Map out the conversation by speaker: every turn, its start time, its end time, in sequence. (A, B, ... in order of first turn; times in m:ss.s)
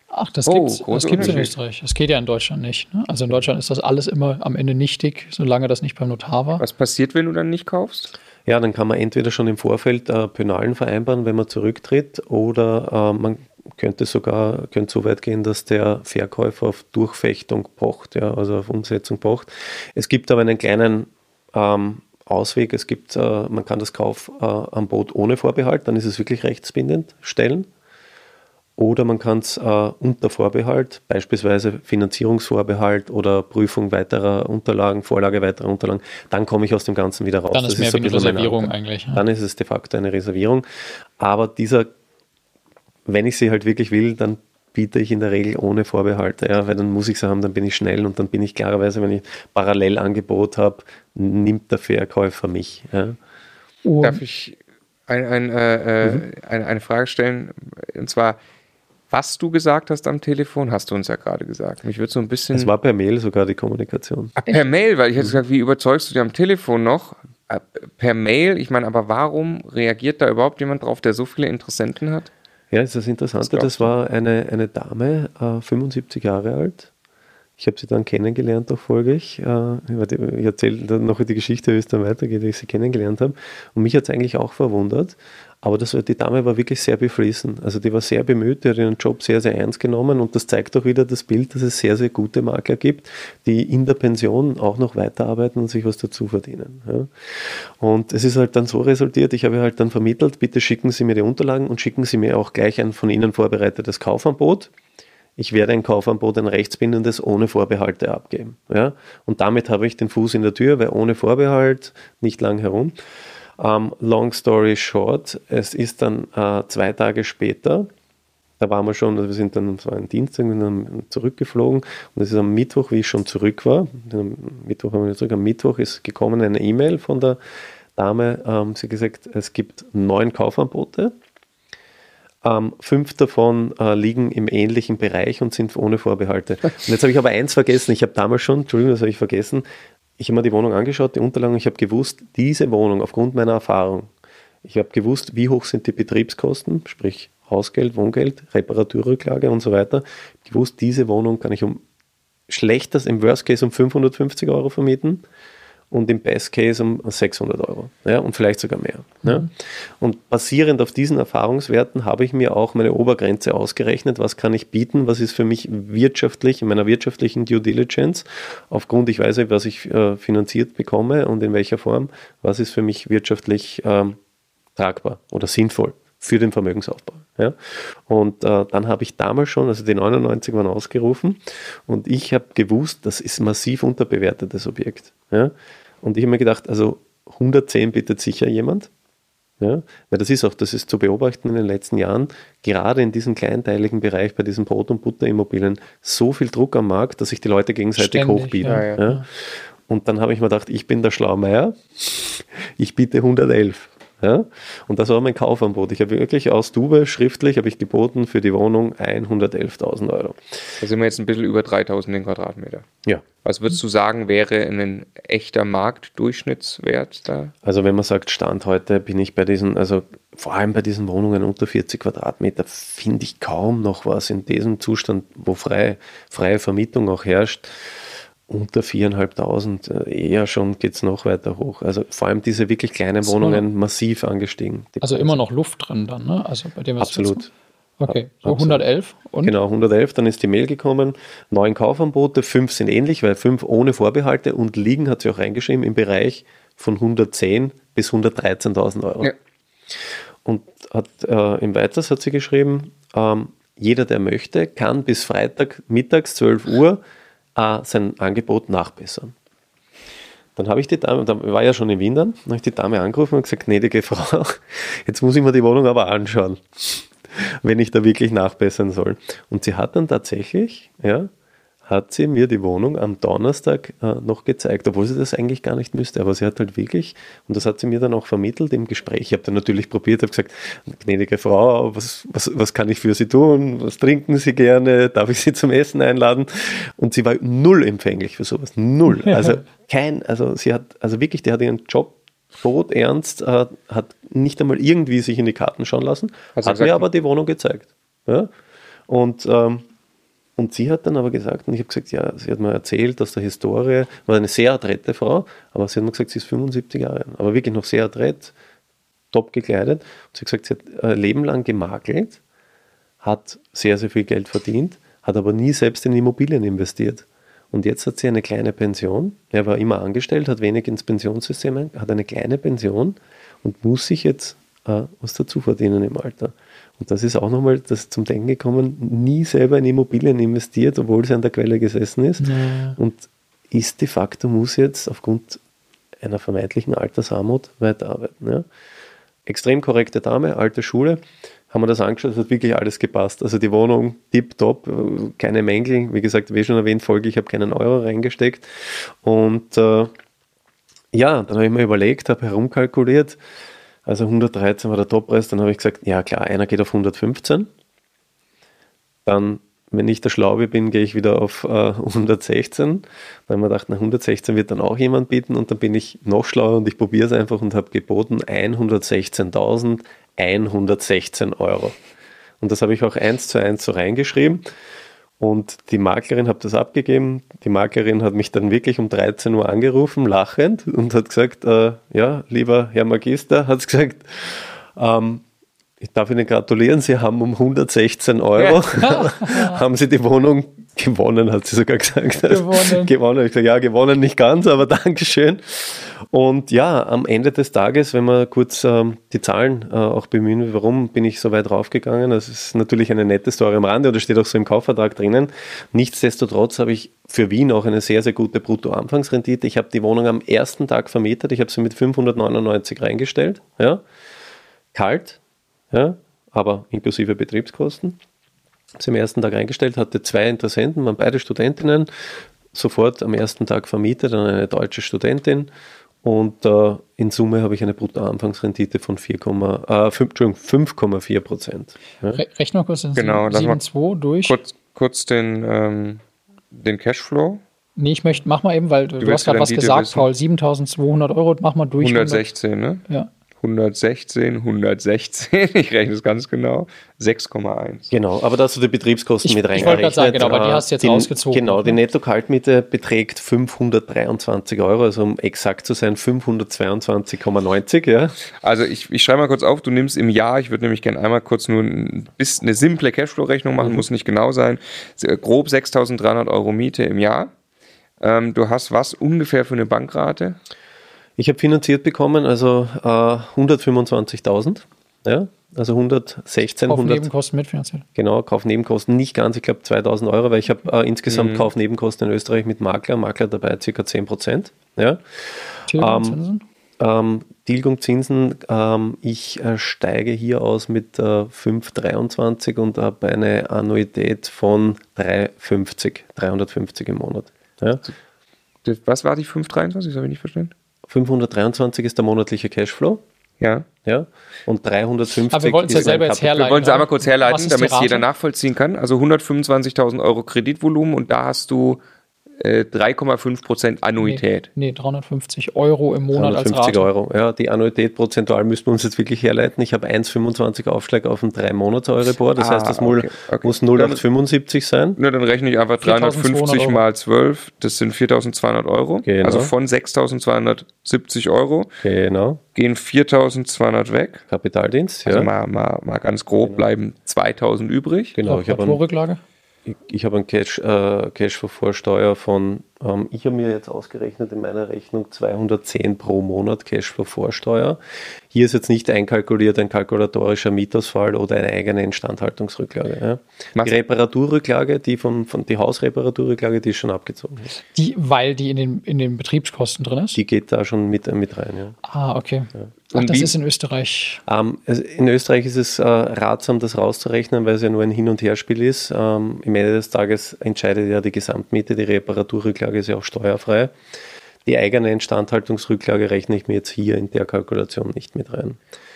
0:00.1-0:06.6 A
0:00.5-0:01.5 B
0:01.2-0:01.4 C
0:06.6-0:08.1 B
0:08.5-0:27.7 C
0:28.8-0:40.6 C
0:37.5-0:39.2 A
0:41.2-0:41.9 C
0:43.1-0:53.2 C
0:53.8-0:54.2 A
0:54.0-0:54.6 B
0:55.1-0:58.4 B
0:59.1-1:02.7 B
1:02.5-1:04.4 C
1:04.4-1:12.3 B
1:12.7-1:16.9 C
1:13.4-1:13.9 B
1:17.6-1:44.7 C
1:45.4-1:53.0 C
1:53.6-1:57.9 C
1:58.6-2:07.4 C
2:08.0-2:11.1 C
2:12.4-2:19.6 C
2:20.2-2:24.1 C
2:24.6-2:31.8 C
2:32.5-2:35.2 C
2:35.9-2:54.2 C
2:54.8-3:08.9 C
3:09.6-3:30.4 C
3:18.0-3:19.2 A
3:18.7-3:19.0 B
3:30.8-3:32.9 B
3:33.4-3:37.5 B
3:37.6-3:55.4 C
3:53.2-3:53.6 A
3:55.0-3:57.5 A
3:57.0-3:57.5 C
3:58.0-3:59.5 A
3:58.1-3:58.8 C
3:59.4-4:09.3 C
4:10.4-4:17.0 C
4:17.6-4:19.4 C
4:20.6-4:31.3 C
4:31.9-4:58.5 C
4:56.6-4:57.1 B
4:59.1-4:59.8 C
5:00.6-5:08.5 C
5:09.3-5:12.4 C
5:13.2-5:35.6 C
5:32.4-5:33.0 A
5:36.2-5:38.7 C
5:39.5-5:50.1 C
5:51.1-5:53.4 C
5:54.0-5:57.7 C
5:59.3-6:12.0 C
6:12.6-6:14.6 C
6:15.4-6:25.4 C
6:26.0-6:54.0 C
6:29.0-6:29.8 A
6:32.5-6:33.1 A
6:54.9-6:55.4 C
6:55.9-6:58.2 C
6:59.0-7:05.7 C
7:06.2-7:12.4 C
7:12.3-7:14.6 A
7:13.2-7:13.8 B
7:14.4-7:17.6 B
7:18.0-7:22.4 A
7:19.2-7:20.3 B
7:22.0-7:23.0 B
7:23.6-7:28.1 B
7:28.1-7:38.4 C
7:29.4-7:32.0 A
7:38.6-7:47.5 B
7:48.2-7:50.6 B
7:51.4-7:57.3 C
7:56.9-7:58.0 A
7:58.2-8:06.4 C
8:01.3-8:01.7 B
8:05.9-8:06.6 A
8:07.0-8:18.0 C
8:18.8-8:20.7 B
8:21.1-8:23.2 C
8:23.6-8:23.9 B
8:24.0-8:26.6 C
8:25.5-8:28.3 A
8:26.4-8:32.0 B
8:32.6-8:34.7 B
8:34.2-8:37.1 A
8:36.3-8:45.2 C
8:42.6-8:44.2 B
8:45.2-8:51.9 B
8:46.0-8:47.0 A
8:49.2-8:49.7 C
8:52.0-8:52.6 C
8:52.8-8:54.4 B
8:54.5-8:55.5 C
8:55.3-8:58.4 B
8:58.3-8:59.0 C
8:58.5-8:59.4 A
8:59.9-9:08.0 C
9:08.5-9:17.7 C
9:17.9-9:20.4 A
9:20.4-9:22.0 C
9:22.1-9:24.4 A
9:23.1-9:23.5 B
9:24.5-9:34.0 C
9:34.6-9:38.8 C